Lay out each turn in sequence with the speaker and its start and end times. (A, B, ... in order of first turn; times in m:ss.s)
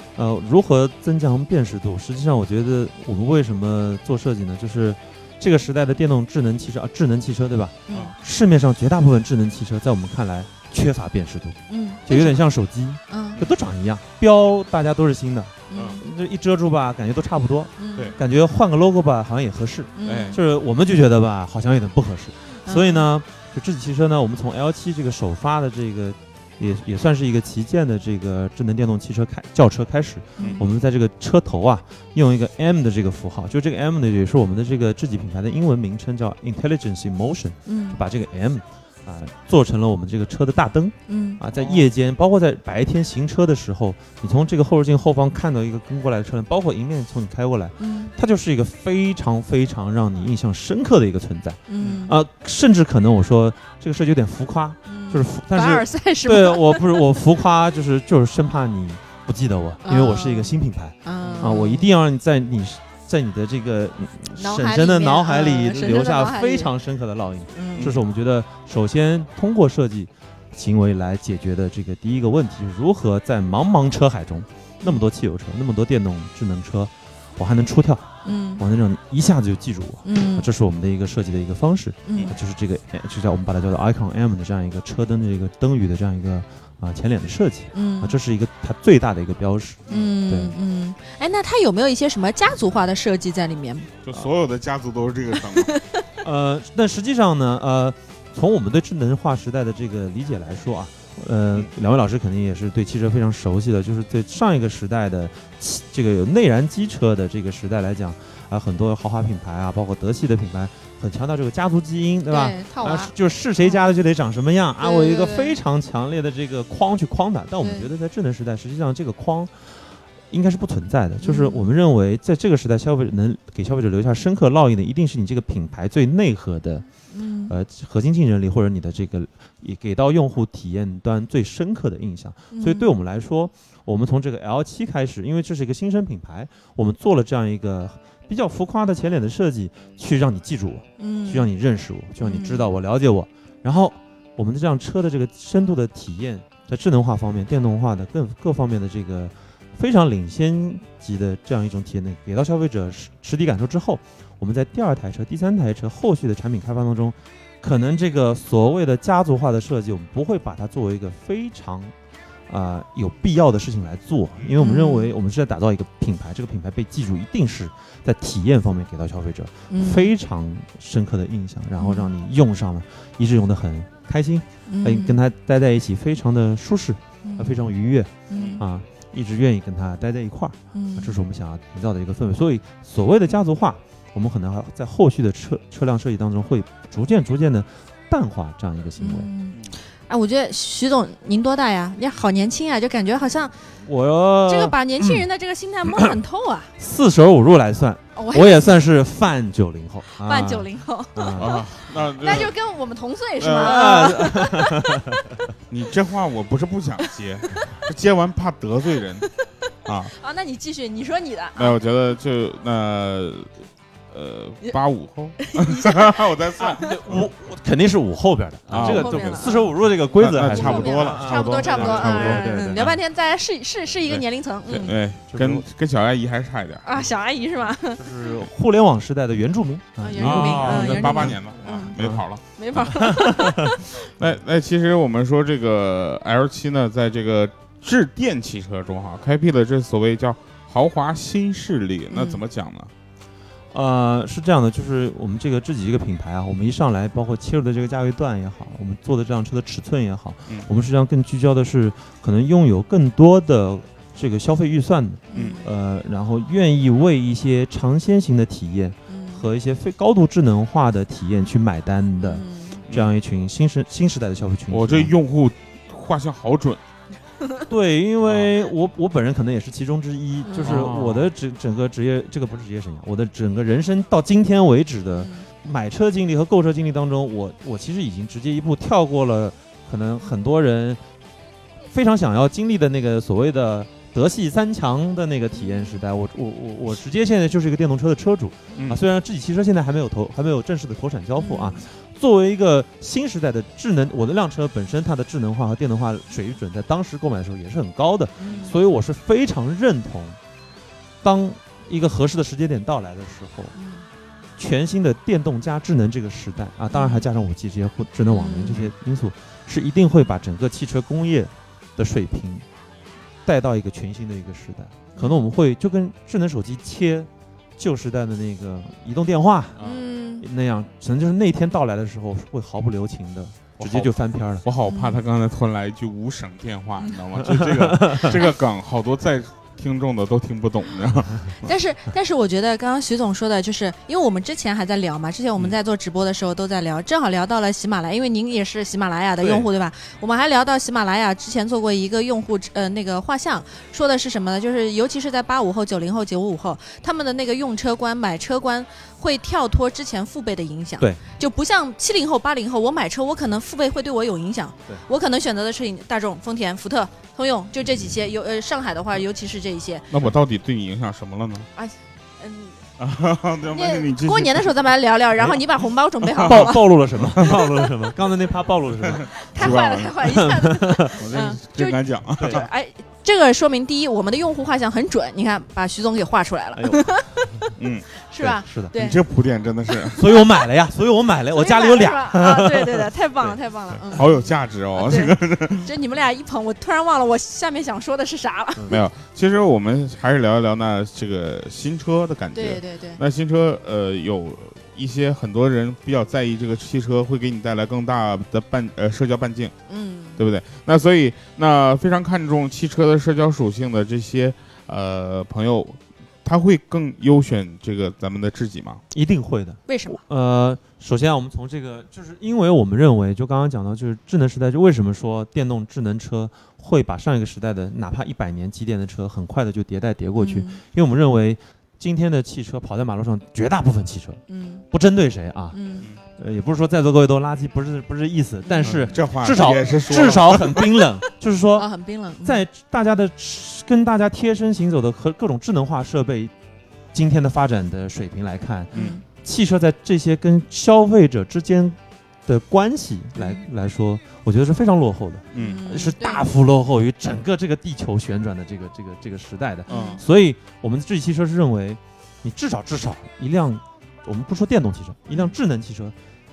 0:00.2-1:30.6 A
0:07.9-0:08.1 B
0:11.7-0:12.4 B
0:13.1-0:13.4 B
0:15.7-0:16.0 B
0:15.7-0:16.0 C
0:17.8-0:18.2 B
0:20.0-0:20.4 B
0:20.0-0:20.4 C
0:22.7-0:23.1 B
0:30.4-0:30.6 C
0:30.4-0:30.6 B
0:37.6-0:38.0 B
0:41.1-0:41.4 B
0:41.5-0:41.9 C
0:47.8-0:48.1 B
0:51.7-0:52.1 B
0:54.9-0:57.2 B
0:59.8-1:01.9 B
1:01.2-1:01.5 C
1:04.4-1:06.7 B
1:07.5-1:07.9 B
1:07.7-1:08.0 C
1:18.2-1:18.6 B
1:20.0-1:20.5 B
1:22.1-1:22.4 B
1:27.7-1:28.2 B
1:29.9-1:30.1 C
1:29.9-1:33.9 B
1:34.0-1:35.7 C
1:35.5-1:35.9 B
1:36.2-2:06.8 A
1:52.3-1:53.1 B
1:54.8-1:55.6 B
1:57.6-1:57.9 B
2:01.2-2:01.6 B
2:07.1-2:07.5 B
2:07.5-2:41.9 A
2:12.5-2:12.9 B
2:21.0-2:21.5 B
2:22.2-2:22.7 B
2:42.5-3:09.3 A
2:44.6-2:45.1 B
2:49.7-2:50.1 B
2:51.8-2:52.1 B
2:54.7-2:55.2 B
2:57.2-2:57.6 B
2:58.3-2:58.6 B
2:58.3-2:58.6 C
3:00.7-3:01.2 B
3:09.0-3:13.5 B
3:13.8-3:15.2 A
3:14.4-3:16.7 B
3:15.9-3:16.1 A
3:16.8-3:21.6 A
3:18.2-3:18.7 B
3:20.2-3:21.6 B
3:21.4-3:22.5 C
3:22.2-3:24.9 B
3:23.4-3:23.8 C
3:23.6-3:25.2 A
3:25.7-3:29.3 C
3:29.8-3:30.1 C
3:30.1-3:31.8 B
3:31.6-3:33.5 C
3:34.1-3:37.3 C
3:35.4-3:36.8 B
3:36.8-3:42.9 A
3:38.7-3:39.6 C
3:38.7-3:39.7 B
3:40.1-3:42.9 C
3:40.4-3:44.9 B
3:44.0-3:47.0 C
3:45.3-3:45.6 A
3:46.8-3:48.0 B
3:47.9-3:51.4 A
3:50.0-3:51.9 B
3:50.2-3:52.4 C
3:52.6-3:54.1 B
3:52.9-3:53.7 A
3:54.2-4:02.9 C
4:02.1-4:02.4 B
4:03.7-4:25.1 A
4:15.3-4:15.6 B
4:15.3-4:15.6 C
4:19.1-4:19.4 B
4:22.2-4:22.8 B
4:22.9-4:23.1 C
4:24.7-4:26.8 C
4:27.7-4:41.0 A
4:28.2-4:28.5 C
4:30.4-4:30.8 B
4:30.6-4:31.3 C
4:35.2-4:35.4 B
4:41.9-5:00.4 A
4:45.6-4:46.0 B
4:48.7-4:49.0 C
4:51.3-4:51.8 B
4:58.4-4:58.7 B
5:01.2-5:03.7 A
5:03.7-5:04.0 B
5:04.6-5:12.6 A
5:06.9-5:07.2 B
5:08.2-5:08.9 B
5:13.4-5:19.8 A
5:15.2-5:15.4 B
5:19.8-5:20.0 C
5:19.8-5:20.4 B
5:20.4-5:24.6 A
5:23.8-5:31.7 C
5:24.8-5:25.2 B
5:27.4-5:28.3 A
5:31.6-6:00.0 B
5:39.4-5:39.6 A
6:00.1-6:01.7 C
6:01.8-6:02.8 B
6:03.0-6:04.7 C
6:03.7-6:06.8 B
6:06.3-6:07.7 C
6:06.4-6:11.2 A
6:09.1-6:10.2 C
6:09.4-6:17.5 B
6:11.2-6:12.7 C
6:12.4-6:12.6 A
6:16.7-6:17.0 A
6:17.8-6:20.4 C
6:18.2-6:19.2 B
6:18.4-6:18.9 A
6:20.2-6:23.1 A
6:21.5-6:28.9 B
6:24.0-6:25.9 C
6:28.9-6:39.7 C
6:32.5-6:33.2 B
6:39.9-6:40.4 B
6:40.4-6:49.0 C
6:49.1-7:04.4 A
6:49.9-6:50.2 B
7:00.4-7:00.8 B
7:04.5-7:04.8 B
7:04.9-7:05.8 A
7:05.7-7:06.1 B
7:06.4-7:11.9 A
7:08.6-7:09.1 B
7:08.8-7:10.9 C
7:11.7-7:12.6 B
7:12.4-7:16.5 A
7:17.1-7:36.1 A
7:18.9-7:19.2 B
7:18.9-7:19.2 C
7:23.4-7:23.6 B
7:25.5-7:25.8 C
7:25.5-7:26.4 B
7:29.9-7:30.2 B
7:29.9-7:30.2 C